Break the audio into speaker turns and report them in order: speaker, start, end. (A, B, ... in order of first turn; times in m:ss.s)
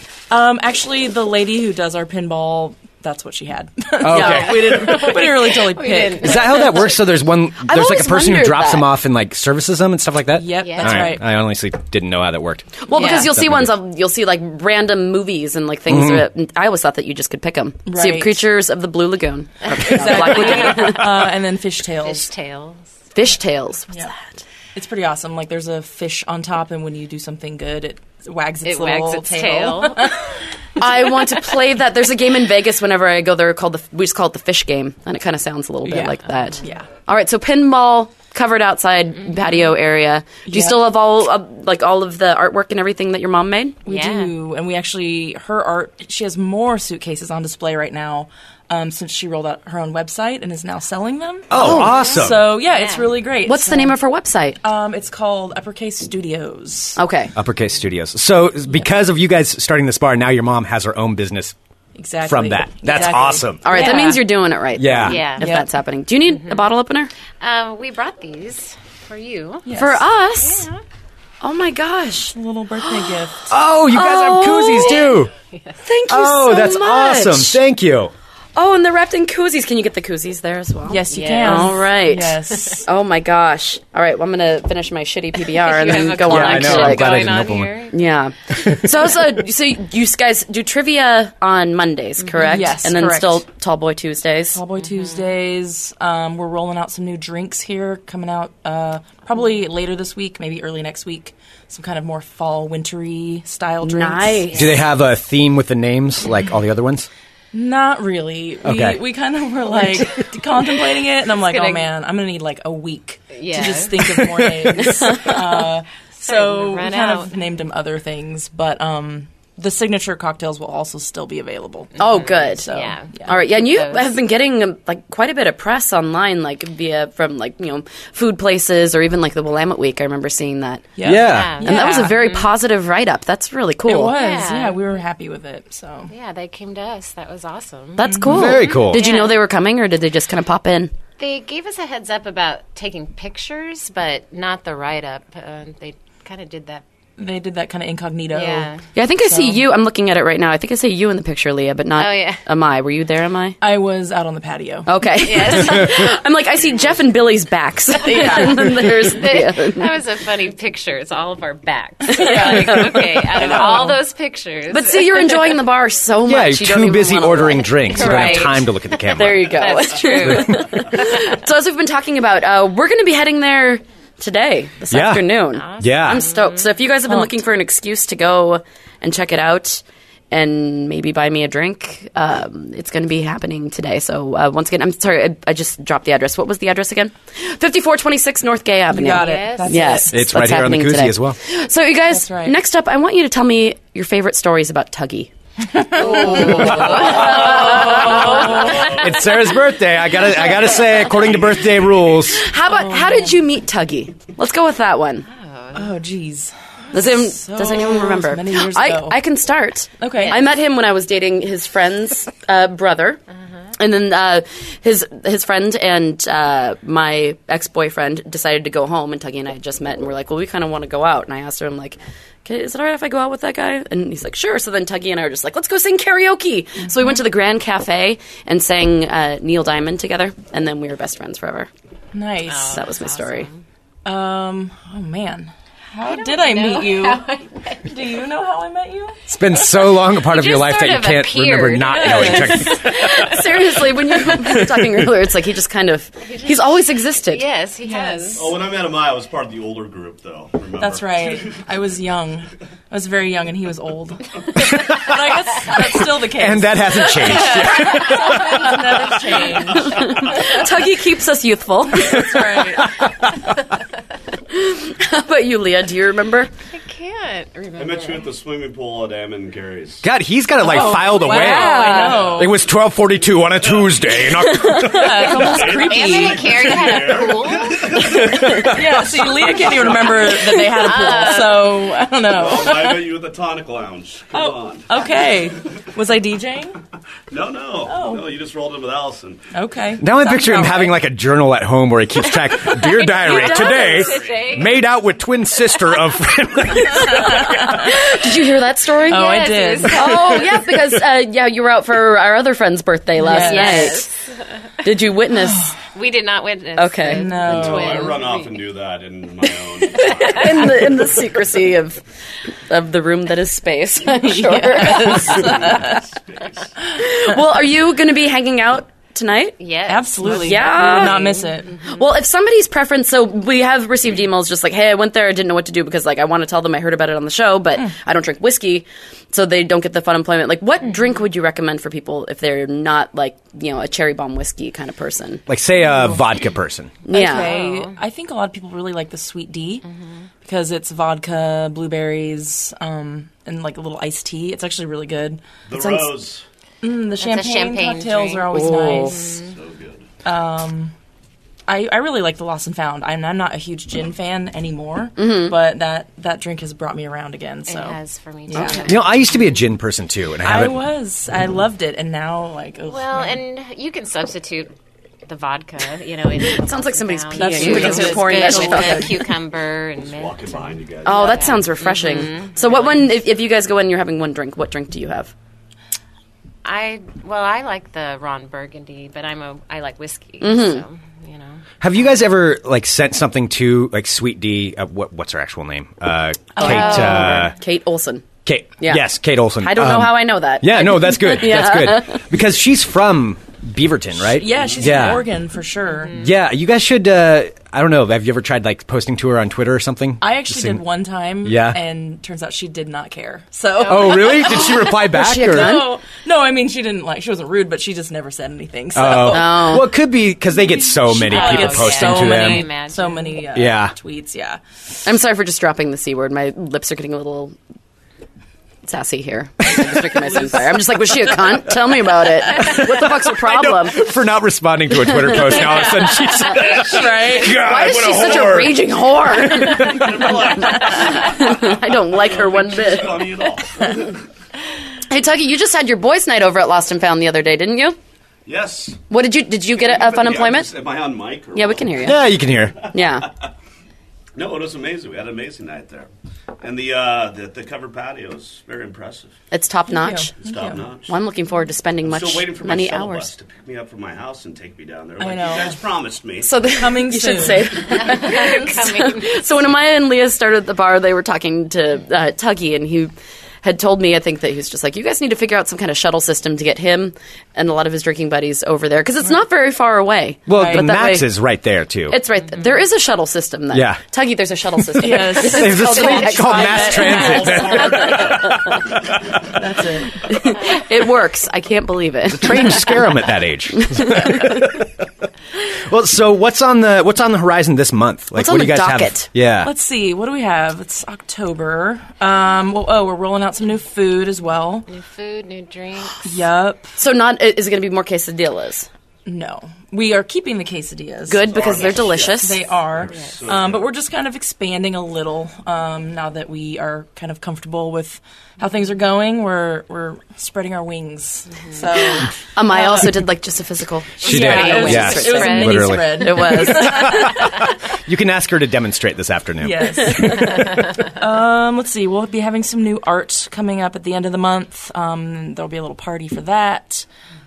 0:00.3-0:06.8 A
0:04.0-0:05.0 B
0:04.1-0:07.0 C
0:06.2-0:13.7 B
0:07.6-0:08.9 D
0:10.3-0:11.2 A
0:10.6-0:11.2 C
0:12.8-0:21.1 D
0:12.9-0:13.3 C
0:15.9-0:16.2 B
0:17.8-0:18.4 A
0:19.6-0:21.3 C
0:19.8-0:22.3 A
0:22.0-0:22.8 C
0:23.1-0:24.4 D
0:24.7-0:30.2 A
0:28.6-0:30.2 C
0:30.8-0:43.8 D
0:35.8-0:36.9 A
0:36.3-0:36.7 C
0:40.4-0:40.9 A
0:43.8-0:44.4 C
0:43.8-0:54.0 A
0:51.5-0:52.5 B
0:51.6-0:52.1 D
0:51.8-0:53.2 C
0:53.4-0:54.6 D
0:54.6-0:57.0 A
0:57.0-0:57.3 D
0:57.3-1:01.5 B
1:02.0-1:04.2 A
1:02.2-1:03.6 B
1:03.6-1:07.1 D
1:03.8-1:04.1 C
1:04.8-1:05.2 B
1:05.0-1:05.5 C
1:05.4-1:05.7 A
1:06.3-1:06.6 C
1:07.4-1:09.8 C
1:09.6-1:10.0 A
1:09.7-1:10.7 D
1:10.3-1:10.8 C
1:11.4-1:12.3 D
1:12.3-1:13.5 A
1:13.5-1:15.3 B
1:13.9-1:15.2 D
1:15.5-1:15.8 C
1:15.8-1:17.6 D
1:16.1-1:18.1 B
1:18.6-1:27.3 D
1:20.9-1:22.8 A
1:21.1-1:22.8 C
1:25.5-1:28.2 C
1:26.3-1:27.7 B
1:27.9-1:34.6 D
1:32.2-1:32.8 C
1:32.4-1:33.4 A
1:34.5-1:44.6 A
1:34.8-1:35.4 C
1:43.8-1:44.7 D
1:44.5-1:44.8 C
1:44.5-1:47.1 B
1:47.5-2:03.4 A
1:48.6-1:49.0 B
1:49.9-1:50.2 C
1:51.3-1:51.9 C
1:53.3-1:54.4 C
1:54.8-1:55.4 D
1:55.2-1:55.4 C
1:56.2-1:57.4 C
2:02.0-2:02.6 D
2:02.0-2:04.1 C
2:03.2-2:11.0 D
2:11.0-2:12.2 A
2:11.0-2:11.6 B
2:11.2-2:12.5 C
2:11.6-2:14.2 D
2:13.8-2:16.1 A
2:14.1-2:14.9 C
2:16.1-2:19.4 C
2:18.0-2:20.9 D
2:18.0-2:18.4 A
2:18.3-2:19.0 B
2:21.2-2:26.8 C
2:27.2-2:29.6 A
2:28.3-2:28.8 C
2:28.9-2:33.6 D
2:32.0-2:32.4 C
2:33.6-2:34.9 A
2:34.8-2:39.9 D
2:35.1-2:36.9 C
2:38.0-2:45.6 C
2:38.1-2:38.5 A
2:42.1-2:43.7 D
2:42.1-2:44.0 A
2:44.7-2:48.5 D
2:46.3-2:49.6 B
2:47.8-2:51.4 C
2:49.1-3:15.3 D
2:54.9-2:56.2 B
2:55.5-2:56.7 C
3:08.9-3:10.2 A
3:09.0-3:10.0 C
3:10.1-3:11.4 B
3:12.1-3:12.6 A
3:15.7-3:18.7 A
3:15.9-3:18.7 D
3:16.0-3:19.4 C
3:18.6-3:19.0 E
3:19.0-3:22.4 B
3:20.1-3:21.1 C
3:21.0-3:22.1 E
3:22.3-3:25.2 D
3:22.6-3:23.4 A
3:25.3-3:26.0 C
3:25.7-3:29.2 A
3:26.9-3:33.2 D
3:30.0-3:30.4 A
3:30.1-3:30.4 C
3:33.8-3:51.7 D
3:46.8-3:47.2 A
3:52.1-3:52.8 A
3:52.4-3:53.6 C
3:52.6-3:53.5 D
3:54.0-3:57.2 A
3:56.0-3:58.2 C
3:57.8-3:59.2 A
3:59.3-4:03.0 B
3:59.6-4:03.4 C
4:02.8-4:07.4 D
4:04.4-4:04.9 B
4:06.2-4:08.5 C
4:07.8-4:08.4 A
4:08.3-4:11.6 E
4:10.8-4:20.2 A
4:16.3-4:18.8 B
4:17.0-4:19.9 C
4:19.8-4:22.5 D
4:21.9-4:22.9 A
4:24.5-4:26.5 D
4:26.7-4:28.3 C
4:27.8-4:30.0 E
4:30.0-4:35.1 B
4:30.6-4:32.5 A
4:31.3-4:32.2 D
4:31.6-4:32.0 C
4:32.2-4:32.4 E
4:33.6-4:34.5 E
4:34.5-4:35.1 D
4:34.7-4:37.0 A
4:35.2-4:38.0 C
4:35.3-4:40.3 E
4:38.6-4:43.1 A
4:39.9-4:41.9 C
4:42.3-4:44.9 E
4:44.3-4:46.8 A
4:47.3-4:49.4 E
4:47.8-4:48.3 A
4:49.5-4:51.0 A
4:50.0-4:57.5 B
4:52.3-4:54.8 C
4:53.3-4:54.0 D
4:57.0-4:57.9 A
4:57.6-5:04.0 D
4:59.1-5:00.4 A
4:59.1-5:00.6 C
5:03.2-5:04.0 A
5:03.2-5:04.2 C
5:04.8-5:05.7 D
5:05.9-5:08.7 C
5:06.8-5:07.3 D
5:07.1-5:08.2 A
5:07.4-5:10.9 E
5:09.9-5:12.0 D
5:10.1-5:10.4 C
5:12.7-5:15.7 D
5:14.1-5:16.0 A
5:15.1-5:16.7 E
5:17.0-5:19.6 D
5:19.6-5:22.1 C
5:19.9-5:21.8 A
5:20.2-5:35.4 D
5:35.5-5:37.0 B
5:35.8-5:36.2 A
5:37.0-5:37.5 D
5:37.1-5:39.8 A
5:37.2-5:38.0 C
5:39.9-5:40.2 C
5:40.4-5:46.1 A
5:45.7-5:46.4 E
5:46.8-5:49.4 A
5:47.2-5:49.5 C
5:48.5-5:49.2 D
5:49.5-5:50.0 E
5:50.2-5:50.9 A
5:51.7-5:58.0 A
5:55.2-5:55.5 D
5:57.6-5:59.6 C
5:58.5-5:58.9 A
5:58.5-5:58.9 D
5:58.8-6:00.8 B
6:00.4-6:03.4 A
6:02.8-6:04.7 C
6:05.3-6:13.1 C
6:06.5-6:09.1 D
6:07.4-6:09.2 A
6:10.0-6:11.5 E
6:11.0-6:15.3 D
6:16.6-6:21.6 C
6:20.4-6:20.8 D
6:21.8-6:27.5 B
6:26.6-6:28.2 D
6:26.6-6:27.2 A
6:26.6-6:27.5 C
6:28.4-6:35.2 B
6:28.8-6:29.1 D
6:29.6-6:32.2 D
6:34.3-6:36.2 A
6:35.9-6:36.3 C
6:36.2-6:40.8 B
6:40.2-6:49.6 A
6:41.4-6:41.8 B
6:43.8-6:44.2 C
6:43.8-6:45.8 B
6:45.0-6:45.9 D
6:48.9-6:52.7 B
6:49.2-6:49.9 D
6:50.5-6:54.6 A
6:51.1-6:53.4 C
6:53.5-6:53.9 B
6:55.0-6:57.5 D
6:58.8-7:04.0 D
7:02.6-7:08.7 B
7:05.4-7:05.9 A
7:06.5-7:07.6 A
7:07.0-7:08.7 E
7:07.4-7:13.3 D
7:09.4-7:10.1 B
7:09.5-7:14.2 E
7:15.1-7:18.0 D
7:18.4-7:19.0 E
7:19.1-7:20.7 D
7:19.7-7:22.1 E
7:21.5-7:22.2 D
7:22.0-7:22.8 B
7:22.9-7:23.3 D
7:24.3-7:26.1 E
7:26.6-7:29.3 E
7:29.5-7:30.3 D
7:29.9-7:30.9 A
7:30.4-7:31.1 E
7:31.1-7:33.3 D
7:32.0-7:36.5 E
7:35.2-7:35.8 A
7:36.4-7:43.1 D
7:36.7-7:37.7 A
7:37.8-7:39.4 C
7:43.6-7:51.3 D
7:50.5-7:52.2 B
7:50.5-7:50.9 A
7:52.1-7:58.2 D
7:53.7-7:54.0 B
7:55.0-7:57.9 A
7:55.4-7:58.5 B
7:57.4-7:58.4 E
7:59.5-8:00.2 A
8:00.2-8:03.0 D
8:02.3-8:04.9 B
8:03.8-8:04.6 D
8:05.7-8:09.7 B
8:08.3-8:09.3 D
8:09.6-8:14.8 A
8:14.9-8:16.5 C
8:16.2-8:16.9 A
8:17.0-8:18.9 D
8:19.2-8:21.7 A
8:21.3-8:22.6 D
8:21.4-8:23.9 E
8:22.2-8:33.2 A
8:23.1-8:23.4 C
8:31.5-8:31.8 C
8:32.5-8:37.3 D
8:34.2-8:37.4 A
8:34.2-8:36.0 C
8:34.2-8:37.5 B
8:38.0-8:40.5 B
8:39.6-8:47.0 A
8:40.5-8:41.1 C